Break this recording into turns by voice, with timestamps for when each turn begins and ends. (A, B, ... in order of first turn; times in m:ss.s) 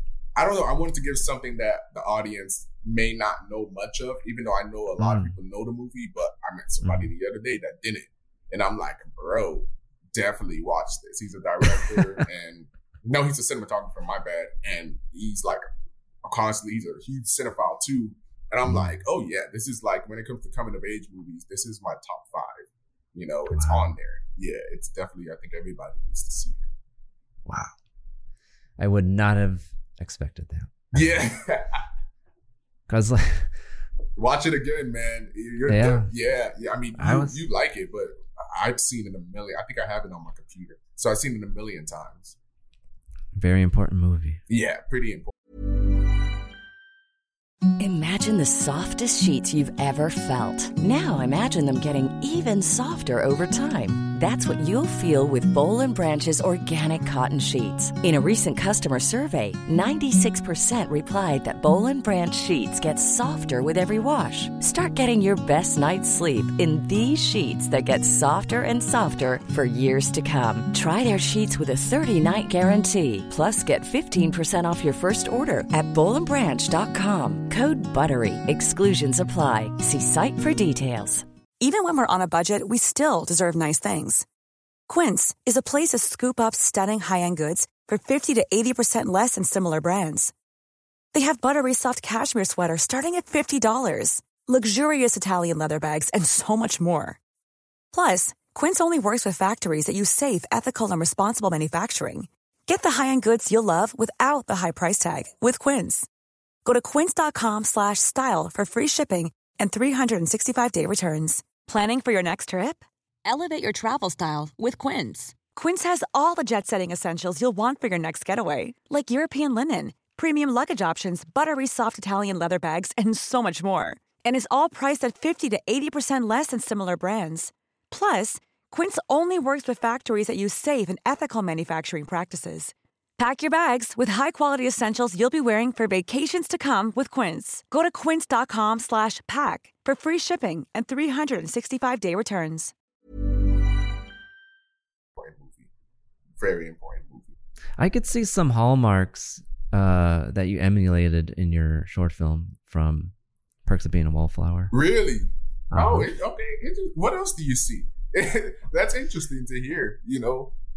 0:00.4-0:15.6 A
0:05.0-0:05.3 B
0:06.8-0:07.1 B
0:11.7-0:12.2 B
0:16.2-0:26.6 A
0:18.6-0:19.0 B
0:23.5-0:23.9 B
0:27.4-0:27.7 B
0:28.8-0:31.2 B
0:30.9-0:31.8 A
0:32.9-0:33.5 B
0:34.2-0:42.4 A
0:35.7-0:36.1 B
0:37.0-0:37.4 B
0:43.4-0:44.4 B
0:44.5-0:45.3 A
0:47.8-1:21.2 C
1:21.6-1:24.2 D
1:24.9-1:30.3 D
1:31.1-1:37.2 D
1:37.9-1:46.1 D
1:46.6-2:22.7 D
2:25.2-2:25.7 A
2:26.4-2:27.3 A
2:27.8-2:33.1 B
2:33.6-2:34.7 B
2:34.7-2:40.5 A
2:35.7-2:36.1 B